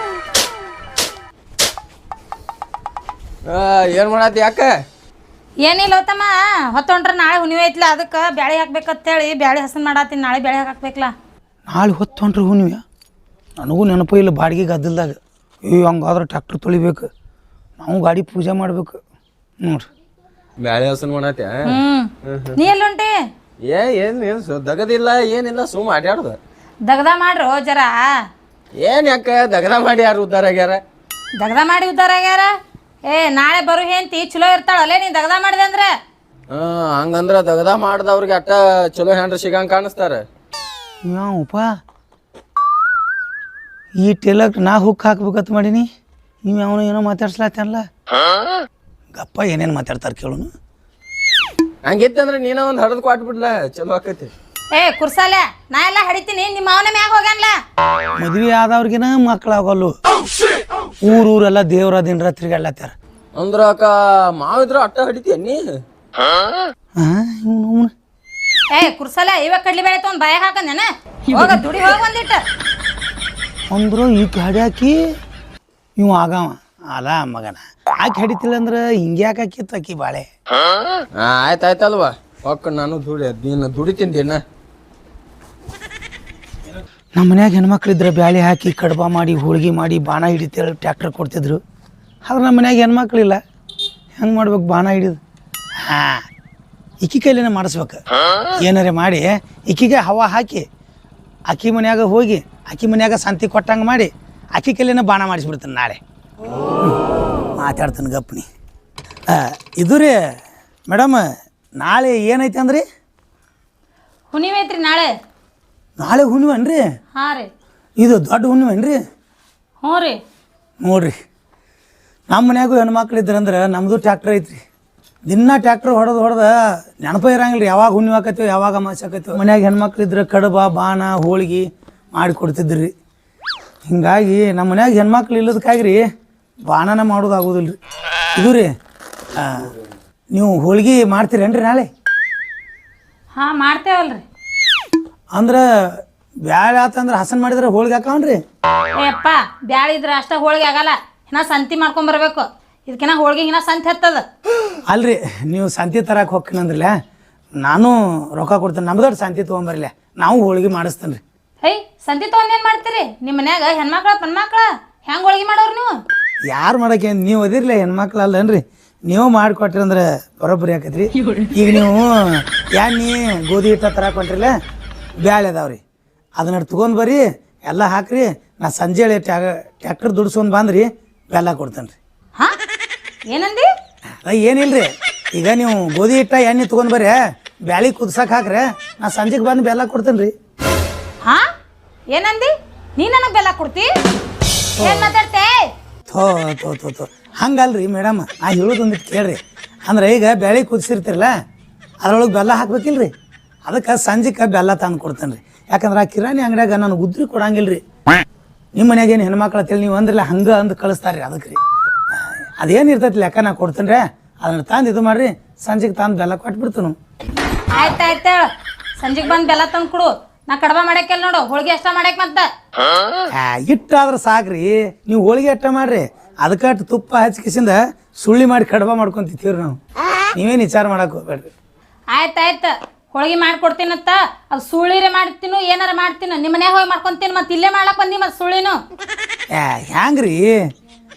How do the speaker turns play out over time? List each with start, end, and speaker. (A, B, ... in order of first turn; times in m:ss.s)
0:03.5-0:04.7 A
0:05.6-0:11.1 B
0:11.7-0:12.8 C
0:13.6-0:17.1 C
0:17.8-0:19.0 C
0:20.6-0:21.6 A
0:21.7-0:23.1 B
0:22.2-0:22.6 A
0:23.6-0:26.4 A
0:26.8-0:28.1 B
0:28.8-0:30.8 A
0:31.4-0:32.5 B
0:33.1-0:35.9 B
0:36.5-0:40.2 A
0:41.0-0:41.7 C
0:44.0-0:45.9 C
0:46.4-0:47.9 C
0:49.1-0:50.5 C
0:51.8-0:54.3 A
0:54.7-0:57.6 B
0:58.2-0:59.9 C
1:01.0-1:02.9 C
1:03.4-1:05.6 A
1:07.0-1:07.9 C
1:08.7-1:12.4 B
1:13.7-1:15.0 C
1:16.0-1:20.3 C
1:21.2-1:24.4 A
1:27.2-1:31.6 C
1:32.2-1:33.4 C
1:34.2-1:35.2 C
1:35.8-1:36.2 C
1:37.0-1:38.0 C
1:38.6-1:40.6 C
1:41.5-1:46.0 C
1:47.5-1:48.4 C
1:49.3-1:50.2 C
1:50.9-1:51.2 C
1:51.8-1:52.8 C
1:54.3-1:55.1 B
1:56.0-1:56.8 C
1:57.1-1:57.5 B
1:58.0-1:59.0 C
1:59.8-2:00.2 B
2:00.8-2:01.1 C
2:02.3-2:04.6 C
2:05.3-2:12.9 C
2:13.9-2:16.0 C
2:16.7-2:17.8 C
2:18.4-2:18.7 C
2:19.3-2:19.7 C
2:20.3-2:21.9 C
2:23.4-2:24.2 B
2:25.3-2:28.4 C
2:28.9-2:34.2 B
2:34.9-2:36.9 C
2:37.6-2:41.2 C
2:41.6-2:45.9 B
2:46.5-2:54.5 C
2:55.2-2:55.8 C
2:56.4-3:02.0 C
3:03.3-3:03.7 B
3:04.2-3:10.3 C
3:12.1-3:13.9 B
3:14.8-3:15.1 C
3:14.8-3:15.7 B
3:16.1-3:21.3 C
3:22.0-3:23.1 C
3:23.6-3:27.8 C
3:28.8-3:31.6 C
3:32.1-3:37.0 C
3:37.7-3:38.4 B
3:39.0-3:42.5 B
3:43.3-3:49.8 C
3:50.3-3:51.5 C
3:52.1-3:58.8 B
3:59.5-4:00.6 C